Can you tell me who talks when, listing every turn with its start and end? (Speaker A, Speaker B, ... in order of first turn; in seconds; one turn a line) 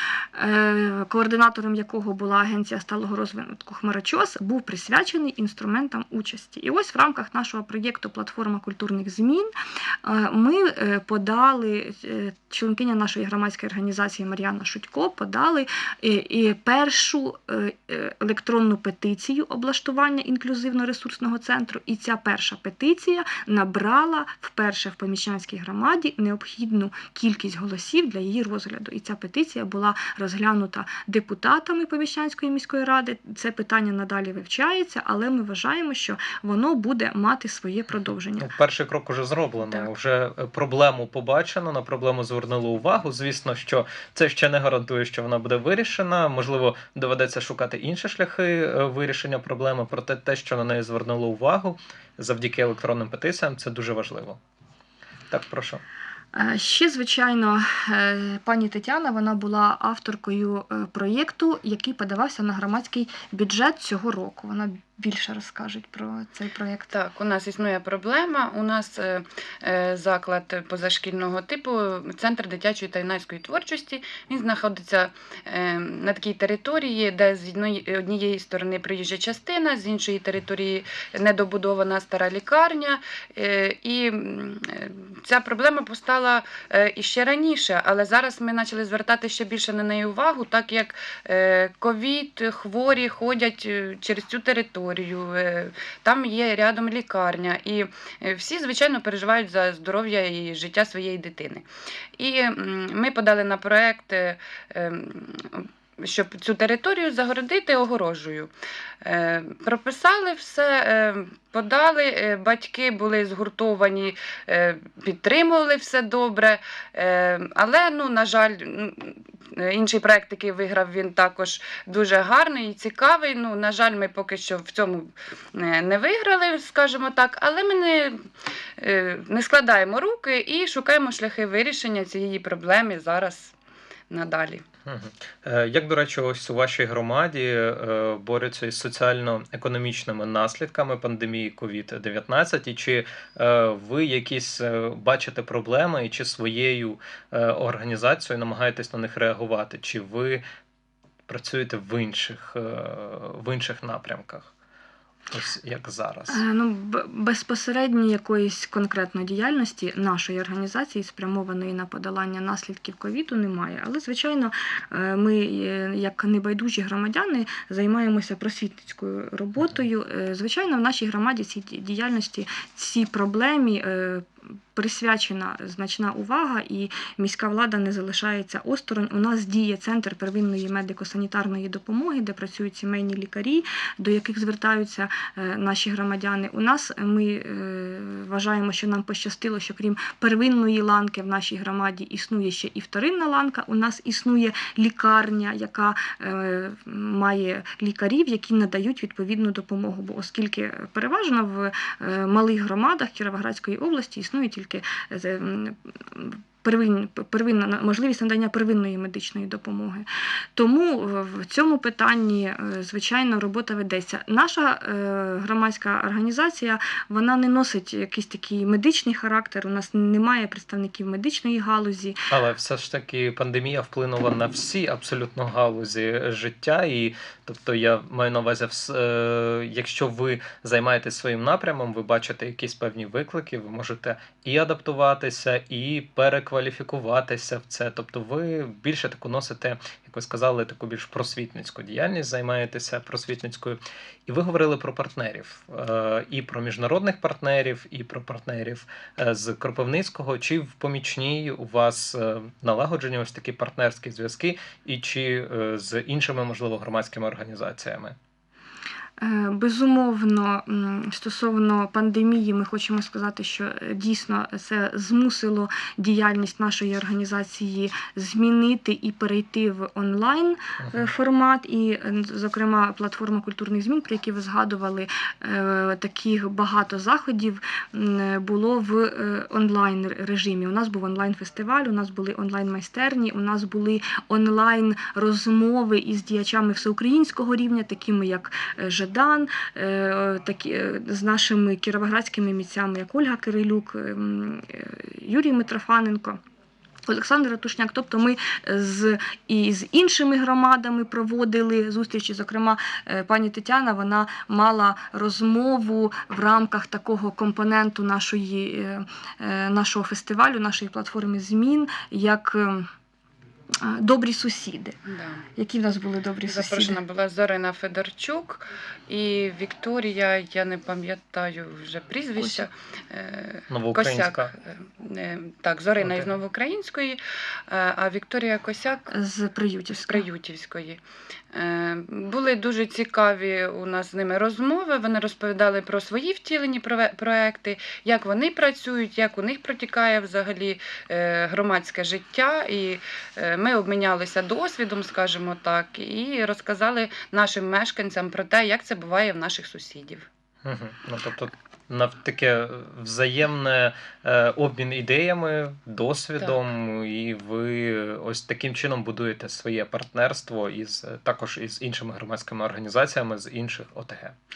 Speaker A: 0.3-9.5
Speaker A: 10.0-38.5
Speaker B: 38.4-54.4
Speaker B: 55.3-55.8
Speaker A: 56.3-66.9
Speaker C: 66.9-101.7
Speaker C: 102.2-108.5
Speaker C: 109.0-128.3
Speaker C: 128.8-133.5
Speaker C: 134.1-134.6
Speaker B: 134.8-150.4
Speaker B: 151.3-154.5
Speaker B: 155.3-156.4
Speaker A: 156.3-222.2
Speaker B: 222.3-258.2
Speaker A: 259.2-296.4
Speaker A: 297.1-312.9
Speaker A: 313.8-315.0
Speaker C: 315.1-315.4
Speaker A: 315.6-317.0
Speaker C: 316.5-329.1
Speaker B: 323.7-324.5
Speaker B: 326.0-326.3
Speaker A: 329.1-330.2
Speaker C: 330.1-331.0
Speaker C: 331.5-350.2
Speaker B: 350.6-364.4